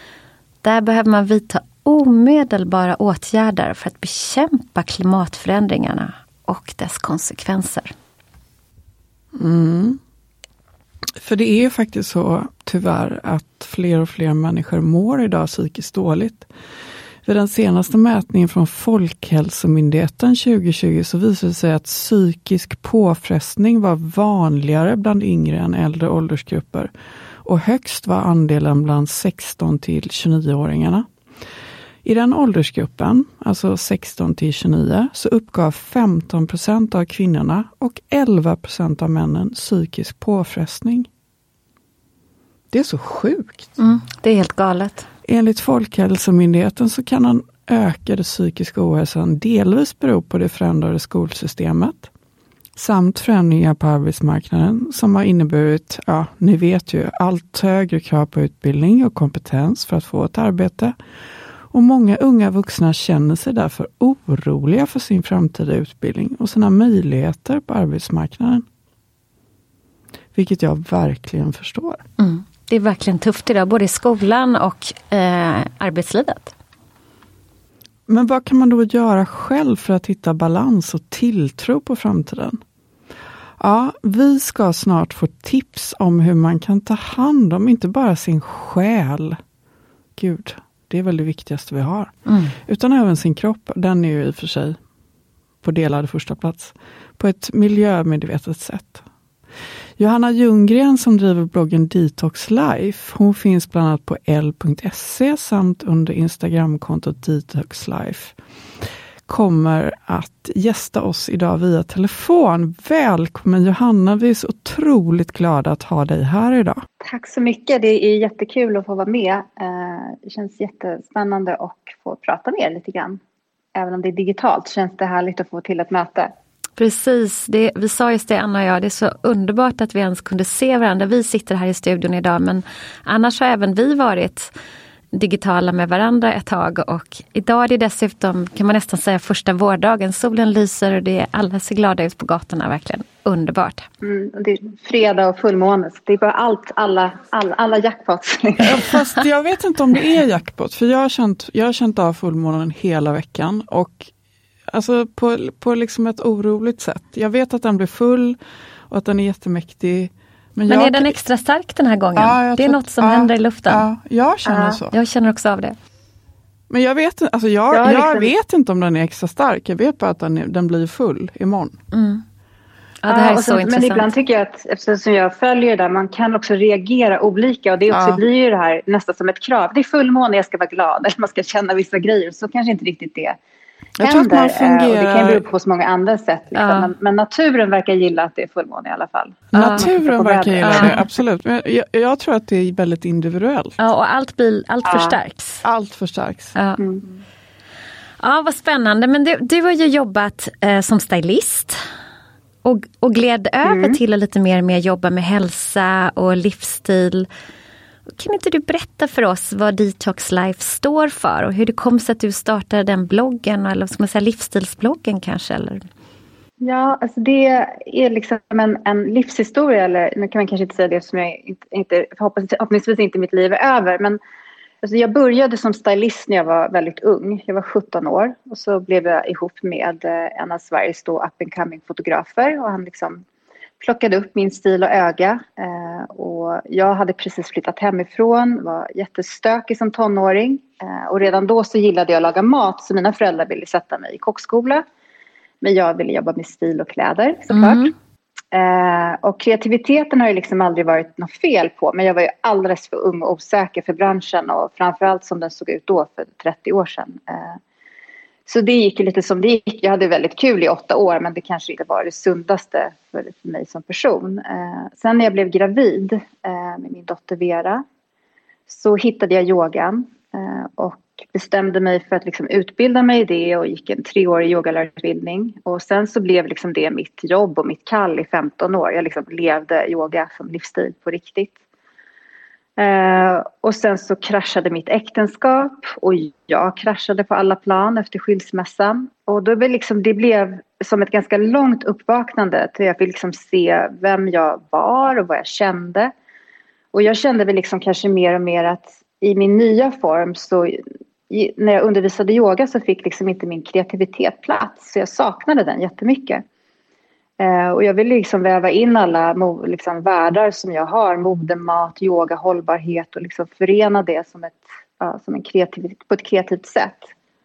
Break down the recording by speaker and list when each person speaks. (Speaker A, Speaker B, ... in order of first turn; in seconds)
Speaker A: 0.6-7.9, 43.8-45.1, 72.2-76.5, 92.3-92.5, 126.8-134.5, 135.1-143.9, 160.7-163.8, 164.9-165.8, 171.9-172.2, 173.0-174.1, 186.6-186.9, 189.5-189.9, 190.6-191.0, 193.8-195.7, 196.6-196.8, 198.2-201.8, 202.6-207.3, 208.2-215.8, 247.5-247.9
Speaker B: 9.3-10.0, 11.2-16.5, 17.2-26.9, 27.4-31.1, 32.0-41.1, 42.7-43.7, 45.3-52.1, 52.8-61.0, 61.7-68.7, 70.3-72.0, 78.1-82.6, 83.6-89.4, 90.2-92.1, 92.7-94.8, 95.6-99.0, 100.0-108.4, 109.3-116.8, 148.6-154.1, 154.7-161.2, 162.2-164.9, 166.7-171.8, 177.9-178.2, 184.0-185.4, 189.5-193.8, 195.6-196.6
Speaker C: 117.0-123.2, 123.8-126.3, 144.0-149.0, 164.5-164.8, 167.7-168.3, 173.1-183.4, 184.0-191.0, 194.9-195.2, 203.6-204.0, 216.6-224.2, 224.8-233.2, 233.8-244.8, 245.6-247.9, 248.5-257.6, 258.5-267.8, 268.7-281.6, 282.8-296.1, 296.9-300.8, 301.3-306.4, 307.4-317.1